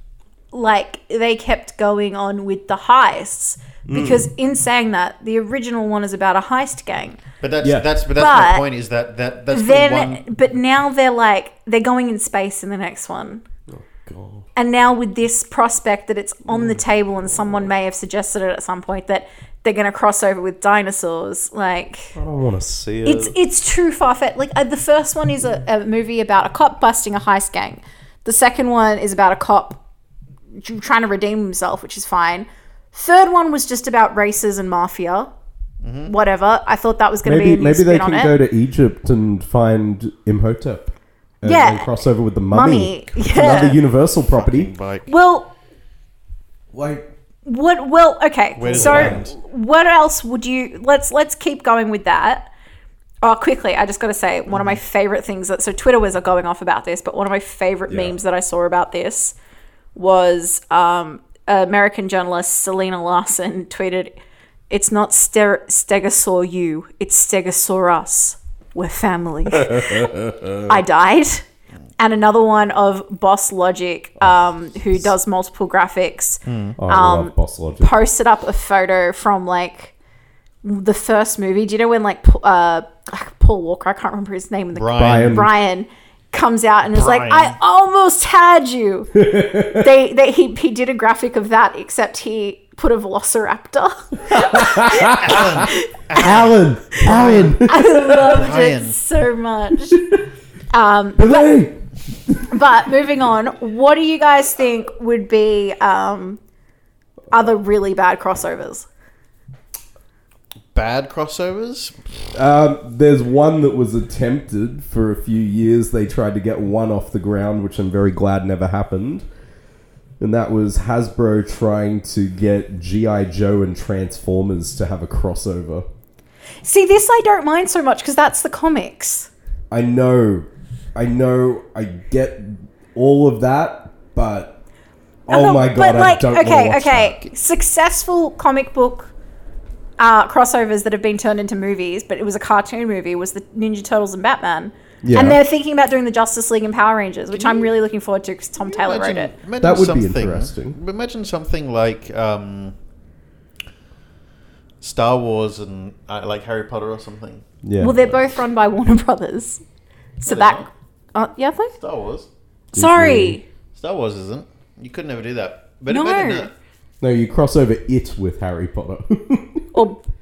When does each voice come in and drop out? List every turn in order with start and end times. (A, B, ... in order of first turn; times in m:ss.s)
0:00.5-0:07.2 A
0:03.9-0:04.3 B
0:07.4-0:10.2 C
0:07.6-0:07.9 B
0:08.2-0:08.6 A
0:09.5-0:13.4 A
0:13.7-0:14.5 B
0:14.6-0:22.1 A
0:16.5-0:17.6 B
0:22.2-0:23.3 B
0:23.0-0:29.8 A
0:30.5-0:35.3 A
0:35.8-0:36.1 C
0:36.0-0:38.4 A
0:37.2-0:44.7 B
0:41.4-0:42.0 A
0:42.5-0:43.8 A
0:44.2-0:45.1 C
0:45.1-0:45.5 A
0:46.7-0:47.1 B
0:47.4-0:52.5 A
0:48.6-0:49.3 C
0:48.7-0:49.3 B
0:53.2-0:59.3 A
0:54.5-0:54.8 C
0:57.9-0:58.2 B
0:59.9-1:04.1 A
1:04.7-1:10.1 A
1:09.5-1:10.6 B
1:10.7-1:11.4 A
1:12.0-1:19.9 A
1:14.2-1:15.1 B
1:16.4-1:16.8 C
1:16.8-1:18.0 B
1:20.6-1:35.9 A
1:24.7-1:25.4 C
1:25.0-1:25.5 B
1:26.9-1:27.6 C
1:29.2-1:29.9 B
1:34.3-1:38.4 B
1:35.1-1:39.0 C
1:37.0-1:40.0 A
1:39.9-1:40.2 B
1:40.7-1:41.6 A
1:41.2-1:41.8 B
1:42.5-1:46.4 A
1:47.3-1:48.9 A
1:50.7-1:52.0 C
1:52.3-1:59.2 B
2:00.2-2:05.8 B
2:06.6-2:09.3 A
2:09.7-2:14.6 B
2:15.3-2:17.2 B
2:15.3-2:19.1 A
2:20.0-2:29.3 A
2:25.0-2:25.4 B
2:27.3-2:27.7 C
2:28.6-2:32.8 C
2:29.6-2:30.8 B
2:34.8-2:37.4 C
2:37.6-2:38.2 B
2:37.8-2:39.6 A
2:40.2-2:41.7 A
2:40.2-2:40.7 C
2:41.8-2:42.3 C
2:42.7-2:43.4 A
2:42.7-2:43.4 B
2:43.7-2:46.5 C
2:45.9-2:46.5 A
2:47.0-2:49.7 B
2:49.7-2:50.0 A